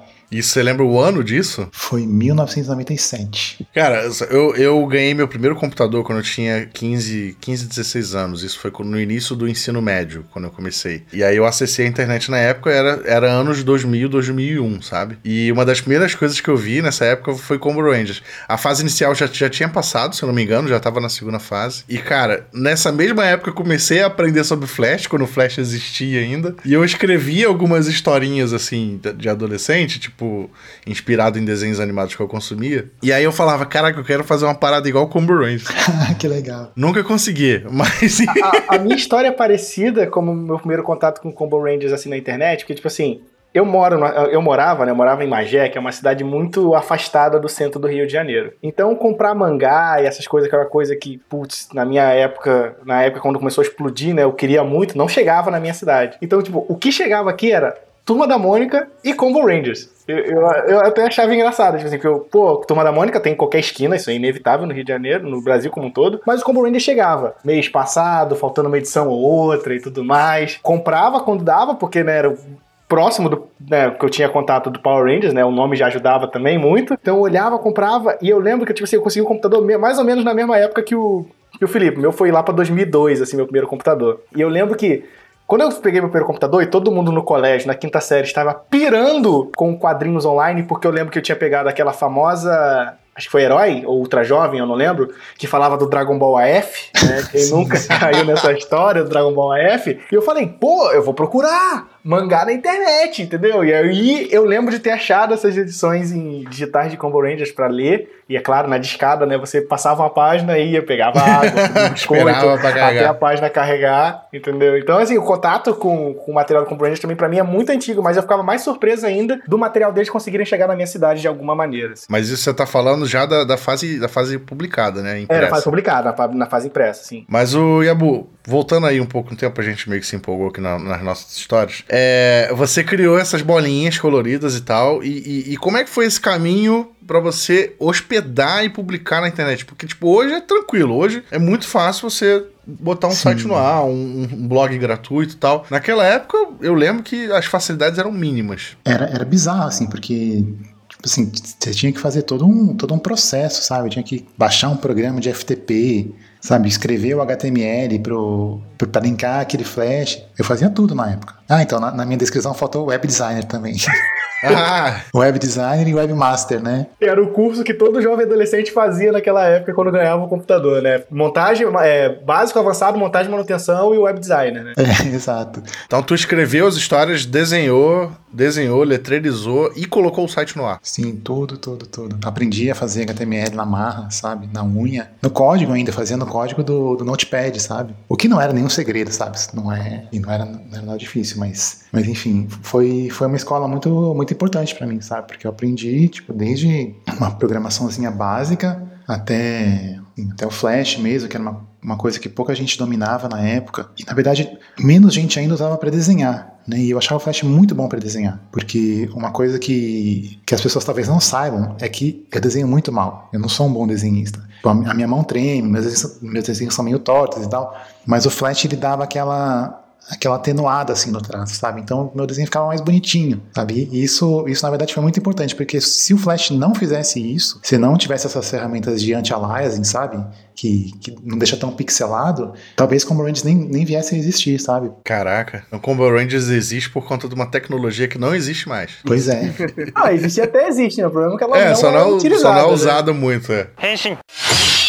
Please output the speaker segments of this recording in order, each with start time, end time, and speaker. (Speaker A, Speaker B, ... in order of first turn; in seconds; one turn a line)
Speaker A: 0.3-1.7
Speaker B: 1.7-3.6
Speaker A: 3.7-35.7
Speaker B: 35.8-36.7
Speaker A: 36.8-38.8
Speaker C: 38.3-122.1
Speaker B: 97.3-98.0
Speaker A: 111.1-113.2
Speaker A: 122.1-125.7
Speaker C: 125.3-127.3
Speaker A: 127.3-148.8
Speaker B: 143.1-143.7
Speaker B: 148.8-164.0
Speaker A: 164.4-165.0
Speaker B: 165.1-166.9
Speaker C: 167.0-174.8
Speaker B: 174.8-175.7
Speaker A: 175.9-180.8
Speaker B: 180.8-235.0
Speaker A: 235.0-239.2
Speaker B: 239.1-239.7
Speaker C: 239.6-243.0
Speaker A: 241.5-244.0